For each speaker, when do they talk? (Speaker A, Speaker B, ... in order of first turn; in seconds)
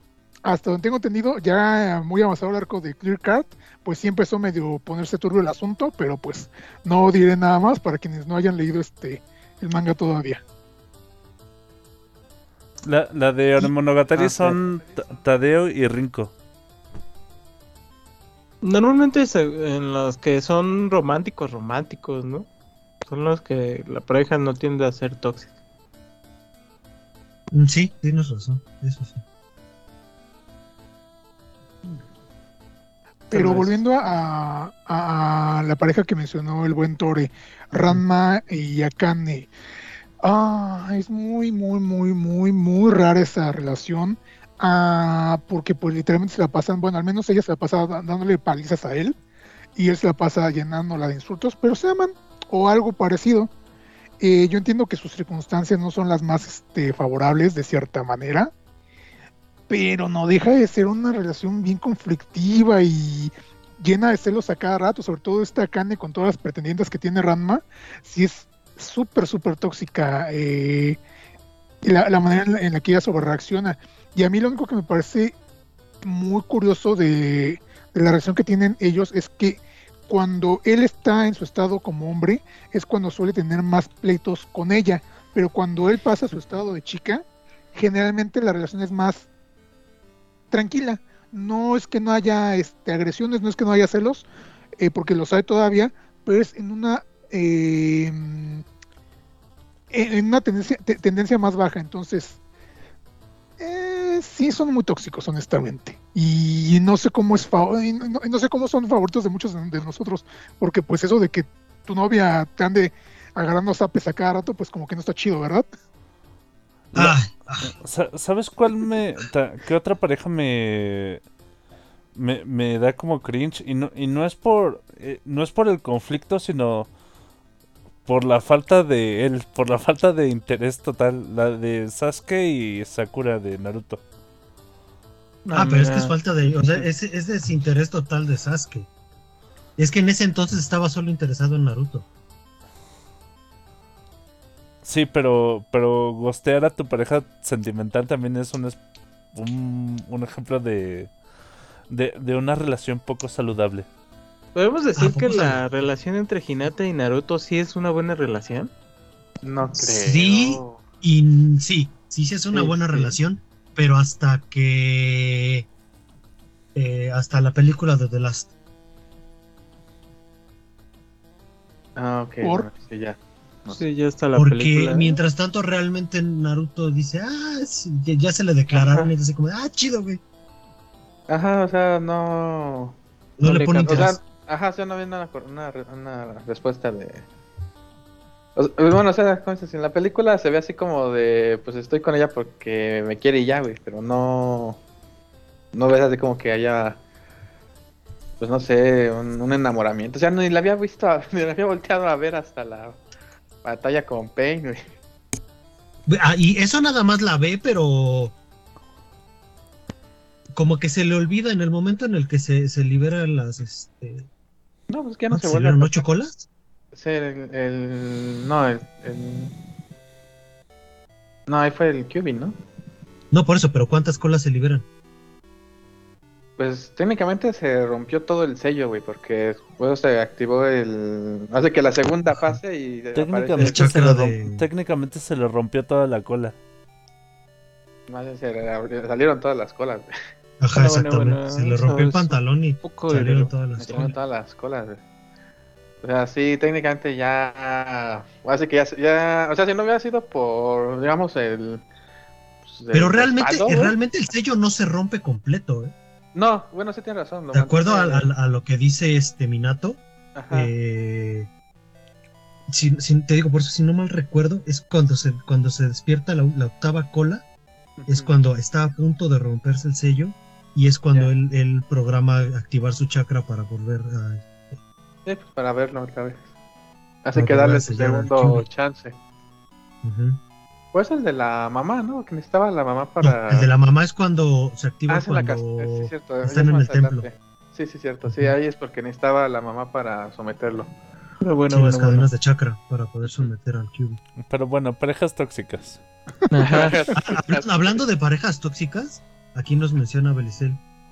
Speaker A: 0.4-10.4, 33.3-39.5, 40.2-49.1, 49.8-53.5, 54.2-58.5, 59.7-71.0, 71.8-75.3, 76.0-87.2, 87.7-89.3, 90.5-94.2, 94.8-98.6, 99.9-102.4, 103.6-115.7, 172.4-172.7
Speaker B: 12.8-16.3, 116.9-121.2, 122.2-126.9, 128.1-134.0, 144.8-148.8, 149.3-151.1, 151.9-153.8, 233.1-236.5, 294.4-296.0
Speaker C: 14.2-14.6, 18.6-22.5, 23.0-25.5, 33.3-33.6, 135.4-136.2, 154.5-158.7, 173.7-175.2, 183.4-184.0, 240.7-244.1, 291.4-292.3, 296.5-297.1
Speaker D: 27.5-29.2, 116.9-117.7, 135.5-138.9, 139.8-142.1, 154.9-155.6, 159.8-165.7, 166.7-168.5, 174.3-180.2, 183.4-184.2, 206.1-208.3, 210.5-214.3, 215.3-216.4, 223.3-224.8, 232.3-232.6, 233.6-234.7, 240.6-244.1, 252.9-255.9, 257.5-261.5, 262.7-267.4, 268.1-274.7, 277.3-278.6, 280.0-280.4, 283.2-287.2, 288.3-288.5, 291.7-294.2, 297.1-300.8
Speaker E: 159.4-160.8, 162.5-163.2, 171.9-173.8, 178.7-179.1, 181.3-183.0, 183.8-187.2, 188.6-194.8, 195.7-197.0, 198.4-203.0, 203.6-204.9, 214.9-216.0, 216.9-219.5, 221.5-222.6, 226.6-233.9, 238.1-240.1, 243.8-245.0, 246.0-251.8, 252.6-253.9, 256.3-258.3, 260.4-260.7, 268.0-268.3, 275.2-276.4, 277.2-279.1, 280.9-283.7, 285.1-290.9, 296.6-298.0